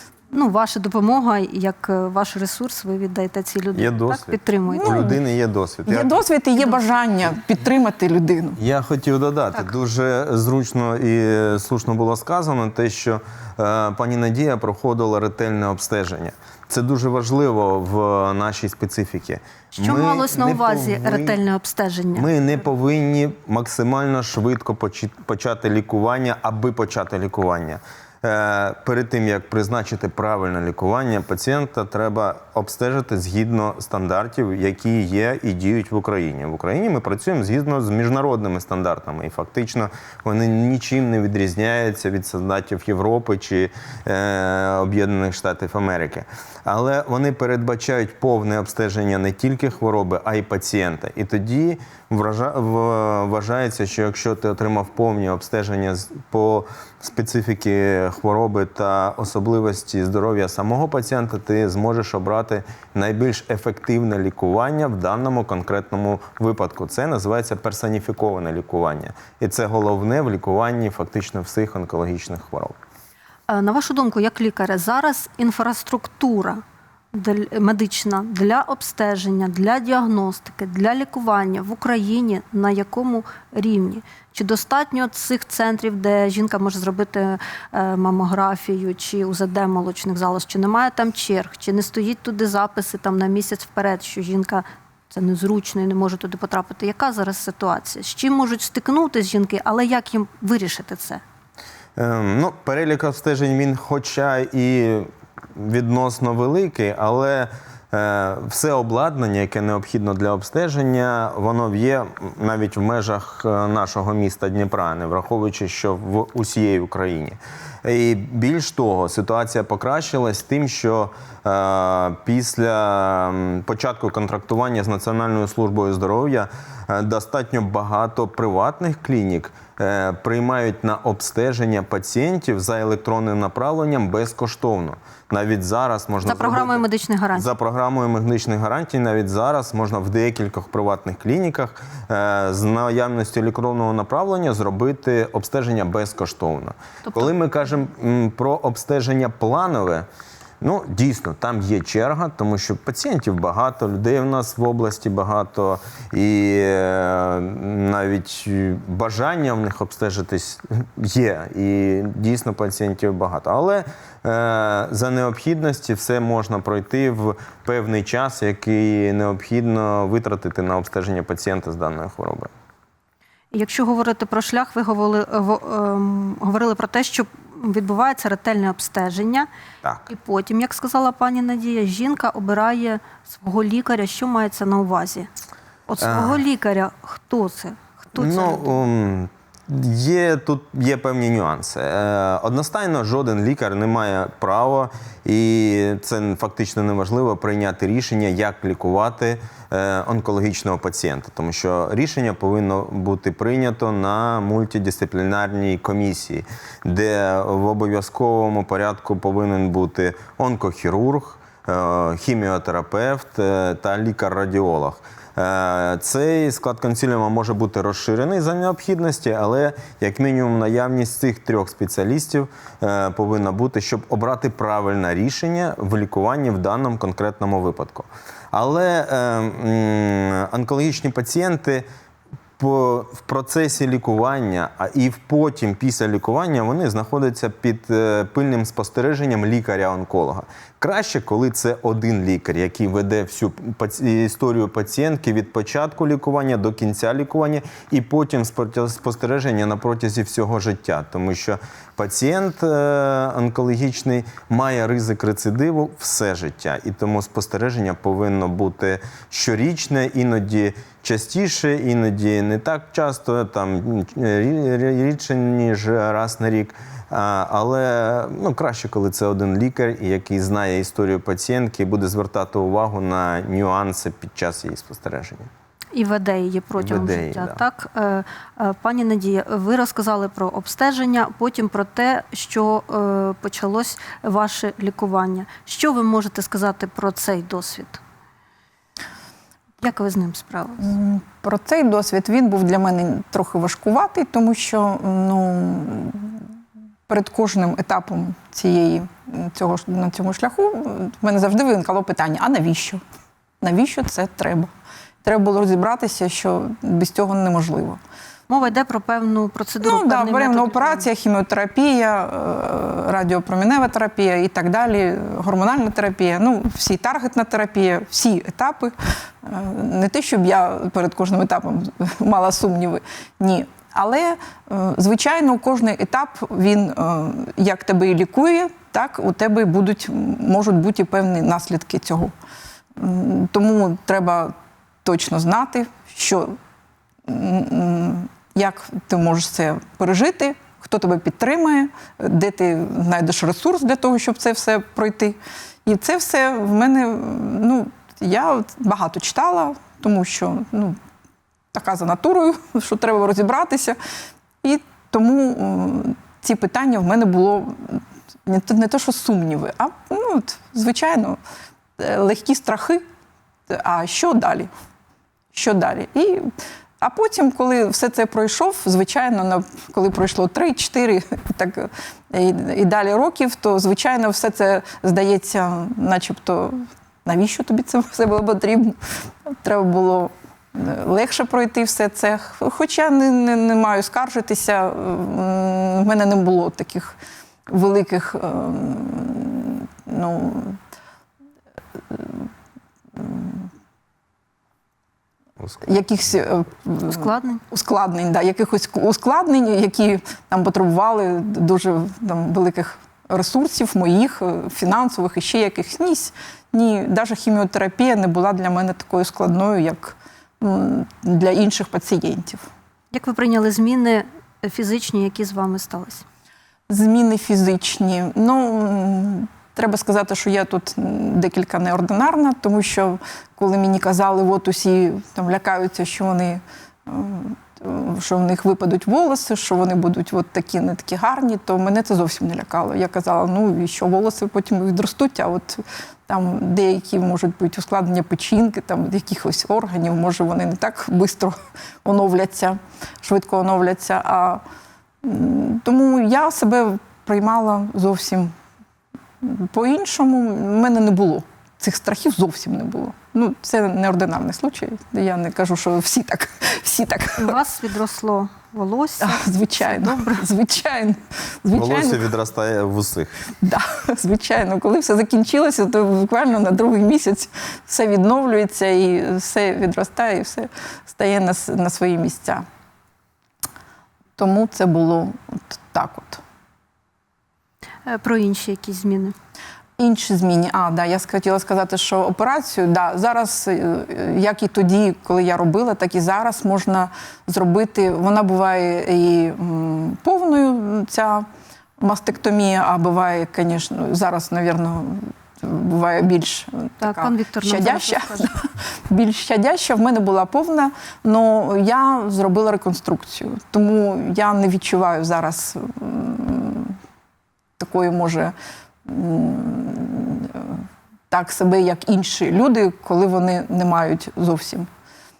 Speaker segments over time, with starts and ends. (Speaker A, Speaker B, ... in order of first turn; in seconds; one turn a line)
Speaker A: 0.3-5.0
Speaker B: 3.7-6.2
Speaker C: 4.7-5.2
Speaker C: 5.9-8.6
Speaker B: 8.6-21.4
Speaker A: 19.8-22.3
Speaker B: 22.1-72.8
Speaker A: 73.5-76.6
Speaker A: 77.1-101.2
Speaker B: 102.0-136.8
Speaker A: 136.2-137.5
Speaker B: 137.3-150.1
Speaker A: 147.0-147.3
Speaker B: 150.6-172.5
Speaker A: 173.5-179.5
Speaker A: 180.1-185.3
Speaker A: 185.9-188.8
Speaker B: 186.0-186.4
Speaker B: 188.1-231.8
Speaker B: 232.6-275.5
Speaker A: 275.9-288.0
Speaker B: 276.8-277.6
Speaker A: 289.8-290.9
Speaker C: 290.8-296.4
Speaker C: 297.1-303.0
Speaker C: 303.6-304.7
Speaker C: 305.2-308.0
Speaker A: 308.5-311.1
Speaker C: 309.8-332.3
Speaker C: 333.0-336.6
Speaker C: 337.2-351.0
Speaker C: 351.7-354.0
Speaker C: 354.6-361.4
Speaker C: 362.0-363.0
Speaker C: 363.7-364.7
Speaker C: 365.5-387.1
Speaker C: 387.7-390.8
Speaker C: 392.1-392.5
Speaker C: 393.1-393.7
Speaker C: 395.8-412.7
Speaker A: 397.0-397.6
Speaker A: 413.1-416.2
Speaker C: 416.9-444.6
Speaker C: 445.2-448.5
Speaker C: 449.4-457.6
Speaker A: 457.4-460.4
Speaker C: 459.2-462.2
Speaker B: 461.7-463.5
Speaker C: 463.6-472.6
Speaker C: 474.4-476.4
Speaker A: 478.1-479.3
Speaker C: 480.0-491.5
Speaker C: 492.0-507.0
Speaker A: 497.0-498.5
Speaker C: 507.8-508.5
Speaker C: 509.0-514.9